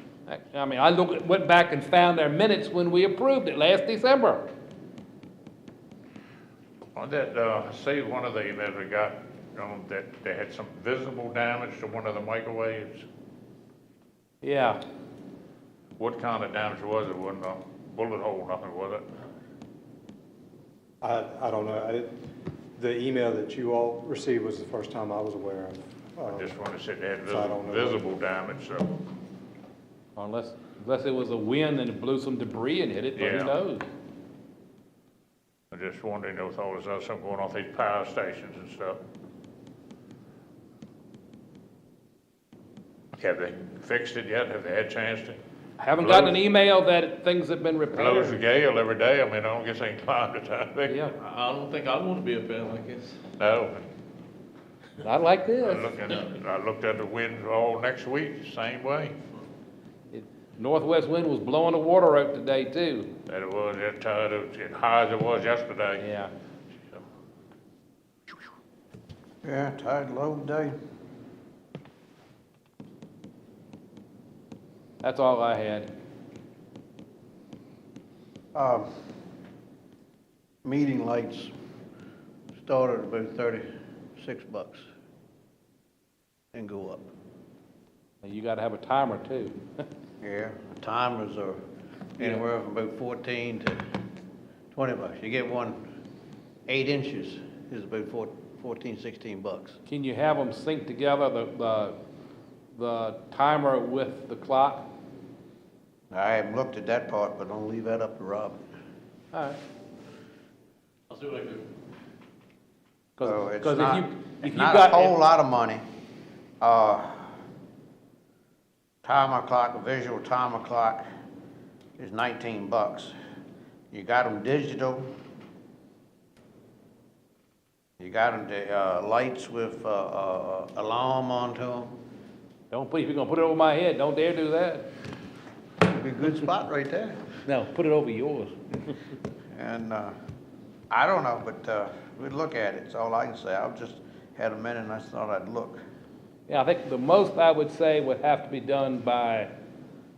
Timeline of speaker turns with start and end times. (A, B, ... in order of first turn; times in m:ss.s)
0:00.3-0:04.4 A
0:07.0-0:13.0 B
0:14.4-0:14.8 A
0:16.0-0:19.0 B
0:21.0-0:22.1 C
0:22.8-0:26.6 C
0:26.4-0:29.0 B
0:27.3-0:28.1 C
0:30.2-0:33.9 A
0:33.2-0:33.5 B
0:35.7-0:39.0 B
0:43.2-0:45.4 B
0:45.8-0:48.4 A
0:46.0-0:46.4 B
0:48.0-0:51.0 B
0:50.9-0:51.1 A
0:51.2-0:53.2 D
0:53.4-0:53.8 B
0:55.0-0:56.0 A
0:55.6-0:59.2 B
1:00.1-1:03.1 A
1:03.3-1:06.0 B
1:06.0-1:06.3 A
1:09.4-1:10.8 E
1:15.0-1:15.9 A
1:18.5-1:18.9 E
1:20.6-1:21.5 E
1:22.6-1:24.8 E
1:26.5-1:27.1 E
1:28.2-1:29.6 A
1:30.2-1:31.6 E
1:32.2-1:33.8 E
1:34.7-1:35.8 E
1:36.7-1:39.8 E
1:39.9-1:42.0 A
1:42.7-1:44.9 A
1:46.1-1:48.6 E
1:49.3-1:49.6 A
1:51.1-1:51.7 D
1:53.2-1:55.1 A
1:53.2-1:55.8 E
1:56.6-1:57.3 E
1:59.0-2:01.0 E
2:02.0-2:03.1 E
2:03.9-2:05.1 E
2:08.0-2:11.9 E
2:12.7-2:14.9 A
2:15.8-2:17.2 E
2:17.4-2:18.9 A
2:19.5-2:20.2 E
2:20.9-2:25.8 E
2:26.5-2:29.5 A